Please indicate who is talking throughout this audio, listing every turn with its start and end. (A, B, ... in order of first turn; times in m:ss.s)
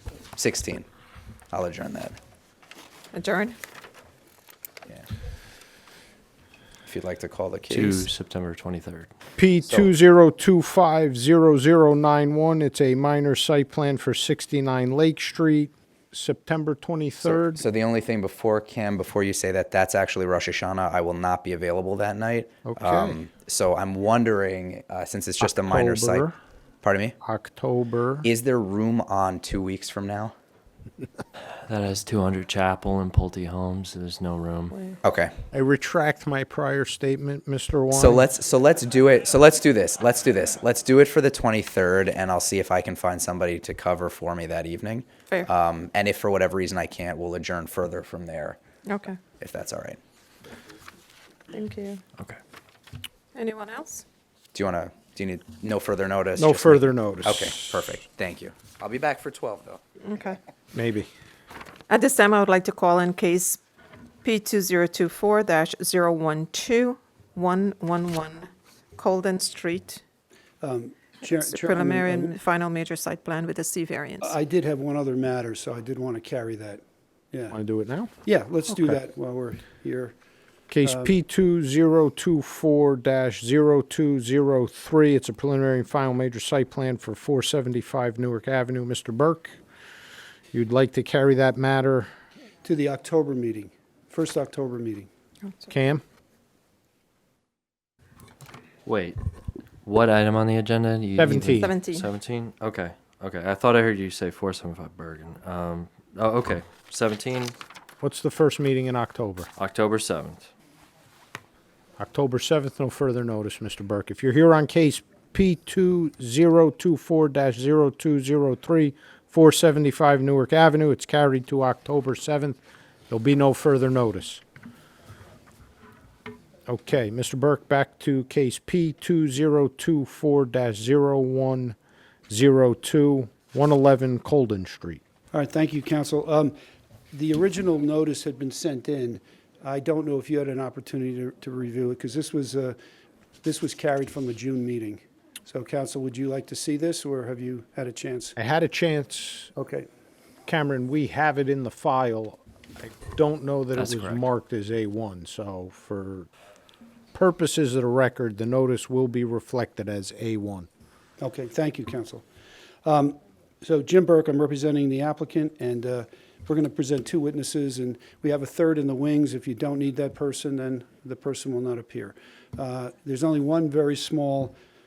0:00.4-0:00.9 A
0:01.5-0:02.2 A
0:03.1-0:03.6 B
0:06.8-0:08.1 A
0:07.7-0:09.1 C
0:09.4-0:17.6 D
0:09.6-0:09.9 A
0:17.2-0:26.3 A
0:22.6-0:23.2 D
0:25.4-0:26.3 D
0:26.8-0:27.2 A
0:27.2-0:28.2 D
0:28.2-0:30.3 A
0:31.6-0:34.8 C
0:35.0-0:35.3 A
0:35.5-0:38.3 D
0:37.9-0:48.6 A
0:48.8-0:49.2 B
0:49.4-0:50.0 A
0:51.5-0:52.0 B
0:53.3-0:54.0 B
0:54.5-0:59.8 A
0:56.4-0:57.9 D
1:00.0-1:00.4 B
1:00.7-1:01.1 D
1:01.9-1:03.6 B
1:04.2-1:10.0 B
1:10.6-1:12.4 E
1:11.2-1:14.4 B
1:14.2-1:17.6 E
1:17.5-1:18.1 D
1:18.2-1:20.1 E
1:18.7-1:19.0 D
1:20.7-1:29.6 D
1:20.8-1:21.1 E
1:30.5-1:32.1 D
1:32.6-1:35.1 E
1:35.7-1:36.0 D
1:38.8-1:39.2 C
1:39.8-1:47.6 C
1:41.2-1:41.7 D
1:41.6-1:42.0 B
1:48.0-1:49.5 D
1:49.6-1:50.5 C
1:52.0-2:02.6 D
2:03.1-2:04.4 D
2:06.7-2:11.8 D
2:12.3-2:15.0 D
2:15.3-2:16.5 E
2:17.1-2:22.8 E
2:23.4-2:28.3 E
2:28.4-2:29.5 D
2:29.6-2:29.8 E
2:30.4-2:36.3 D
2:33.8-2:34.2 C
2:37.1-2:40.7 D
2:41.2-2:42.2 E
2:42.8-2:54.5 E